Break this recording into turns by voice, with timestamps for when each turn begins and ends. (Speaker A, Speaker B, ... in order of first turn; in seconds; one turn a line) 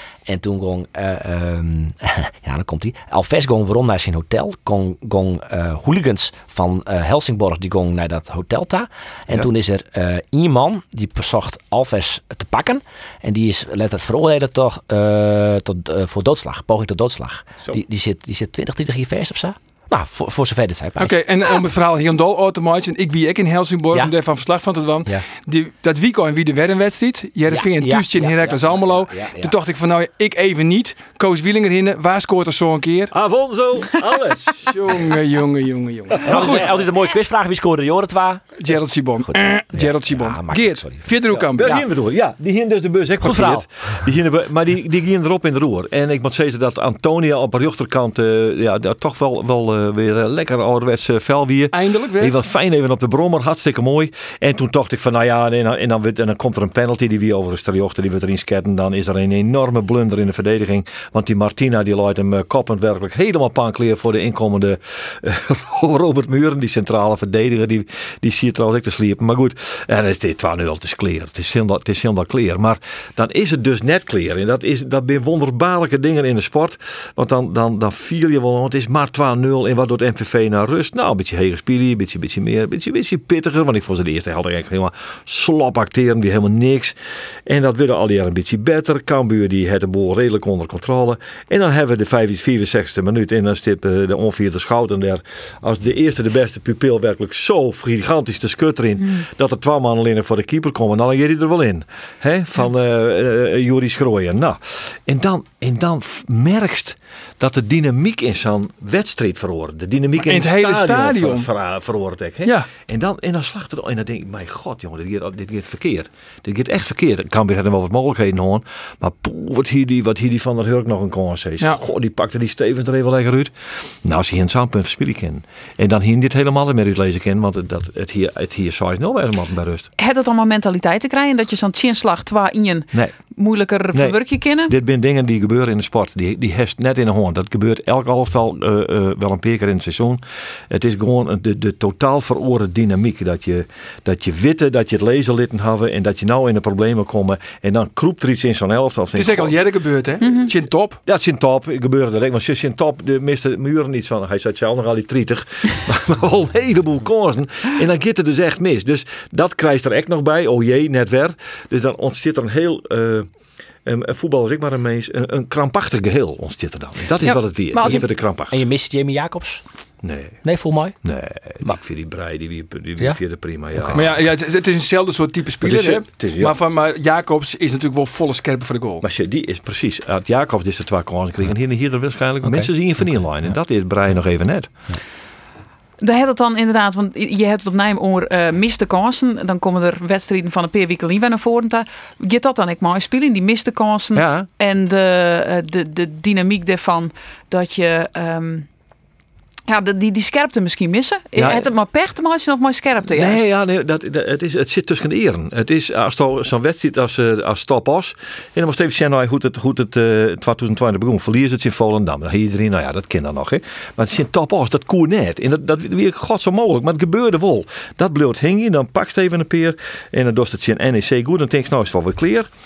Speaker A: 0.3-21.2
Speaker B: 21.0-33.1
Speaker A: 27.5-29.6
Speaker C: 33.1-35.2
Speaker B: 34.7-36.7
Speaker C: 36.2-36.7
Speaker A: 36.2-38.5
Speaker B: 38.6-41.7
Speaker A: 39.2-41.1
Speaker C: 41.3-129.9
Speaker A: 43.2-43.9
Speaker B: 51.7-52.3
Speaker B: 110.2-111.5
Speaker B: 112.4-112.7
Speaker D: 130.0-134.7
Speaker C: 133.9-149.6
Speaker B: 149.2-151.0
Speaker C: 151.1-163.3
Speaker C: 163.8-168.6
Speaker D: 167.2-168.1
Speaker A: 167.8-169.6
Speaker C: 170.0-170.4
Speaker A: 170.4-171.0
Speaker C: 171.0-174.1
Speaker A: 173.8-174.1
Speaker B: 173.9-179.1
Speaker C: 175.6-176.6
Speaker C: 179.0-184.9
Speaker A: 182.4-183.2
Speaker D: 186.0-198.7
Speaker C: 194.2-194.5
Speaker D: 199.7-203.4
Speaker C: 201.3-201.7
Speaker C: 203.1-222.5